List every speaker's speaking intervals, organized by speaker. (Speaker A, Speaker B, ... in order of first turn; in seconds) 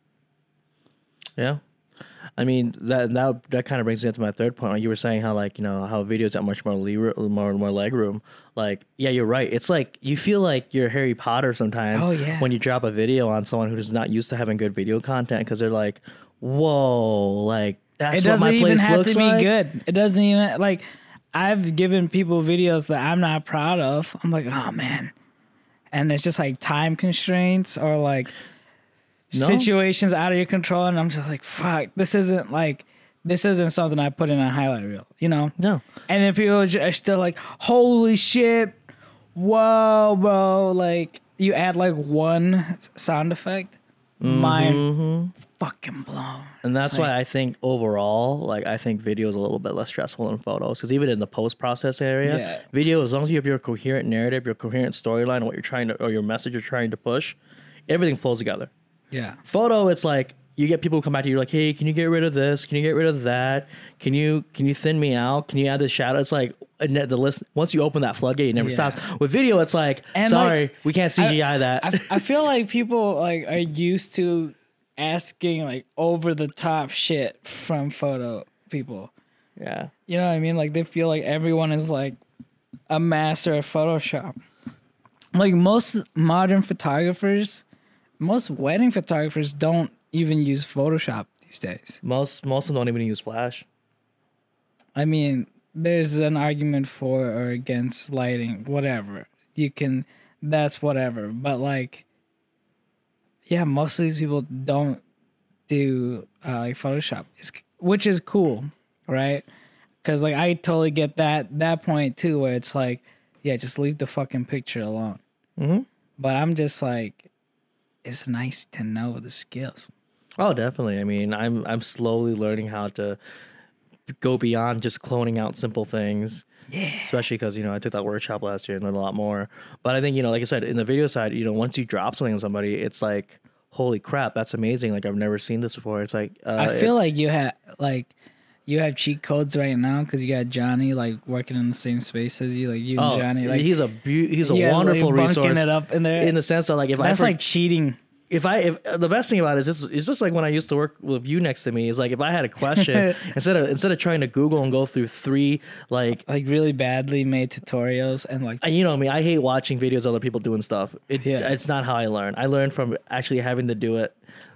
Speaker A: 2.4-19.5, 29.3-29.7, 35.6-35.8, 44.2-45.3, 46.6-58.7, 59.5-72.2, 79.6-79.9, 92.0-93.7, 115.6-115.9, 120.4-123.2, 124.1-126.5, 127.0-136.9, 143.0-147.3, 148.3-156.2, 158.6-164.2
Speaker B: 11.9-12.5, 18.1-25.1, 25.9-28.3, 29.3-35.5, 36.1-38.8, 39.3-44.8, 45.4-47.1, 52.2-52.6, 59.1-59.4, 68.5-69.0, 70.1-70.6, 71.2-79.1, 80.1-82.2, 82.9-84.4, 85.3-87.6, 88.2-92.0, 94.9-102.0, 103.5-105.0, 105.7-109.5, 110.0-115.2, 116.2-117.3, 118.0-119.9, 126.7-127.2, 136.6-138.1, 138.7-143.7, 144.4-146.3, 147.0-148.0, 152.7-153.2, 156.2-158.6, 161.2-161.5